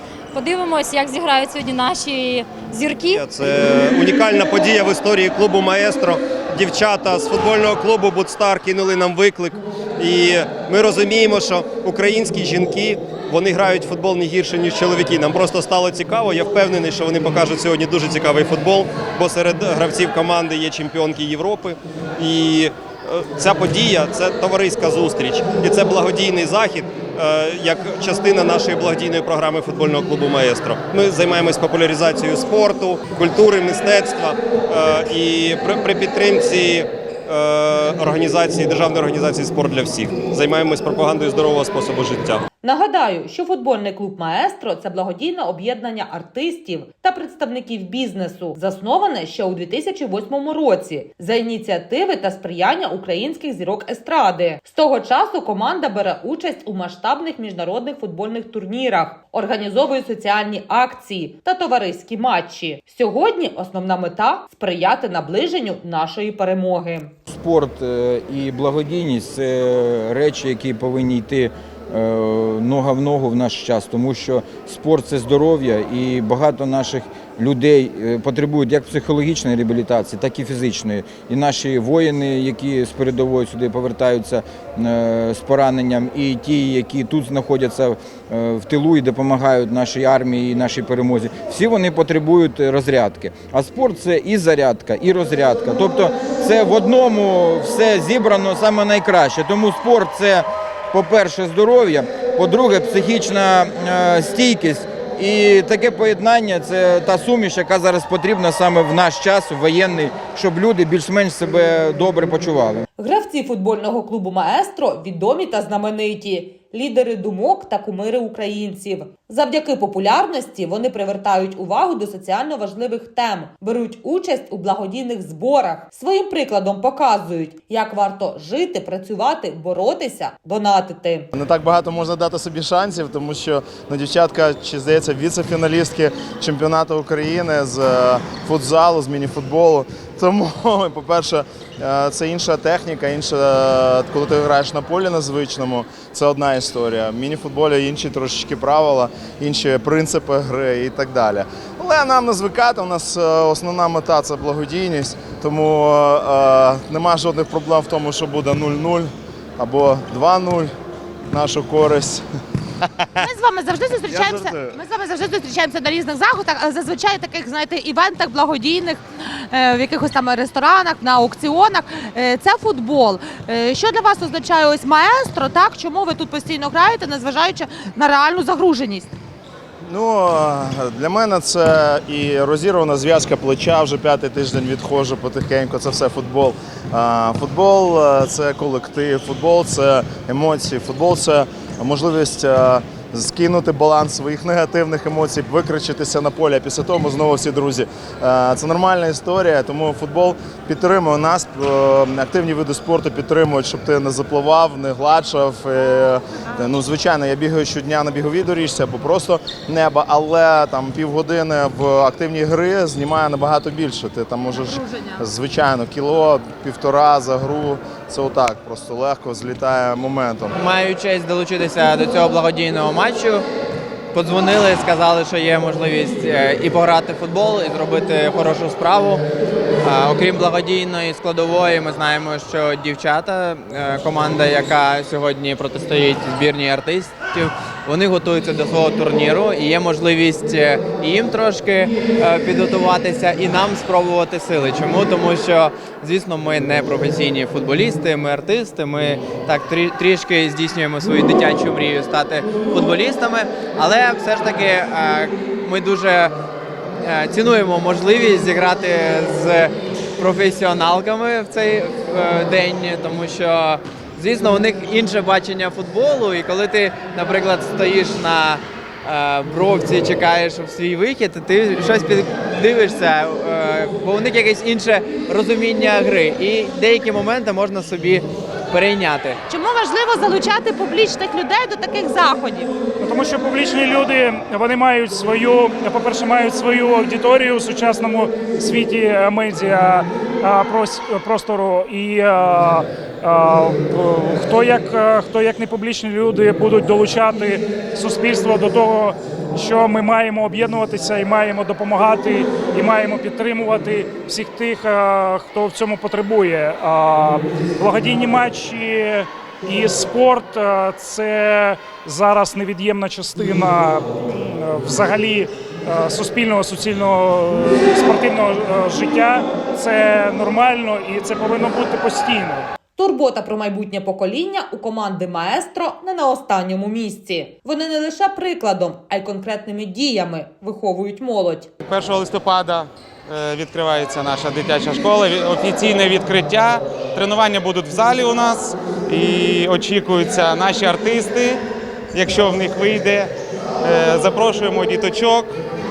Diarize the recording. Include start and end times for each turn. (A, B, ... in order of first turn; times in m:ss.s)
0:00.3-0:03.2 A
0:03.1-0:42.4 B
0:42.6-1:07.1 C
1:07.3-1:52.8 D
1:53.0-2:11.3 C
2:11.3-2:40.7 E
2:41.3-2:42.2 E
2:43.2-2:59.1 F
2:59.8-3:40.6 E
3:40.6-3:43.4 G
3:44.1-3:49.2 G
3:49.8-4:16.3 G
4:17.0-4:39.4 G
4:39.5-4:42.7 F
4:43.0-5:22.7 H
5:23.0-5:31.7 C
5:31.8-5:41.6 I
5:42.1-5:43.3 I
5:43.8-5:45.5 I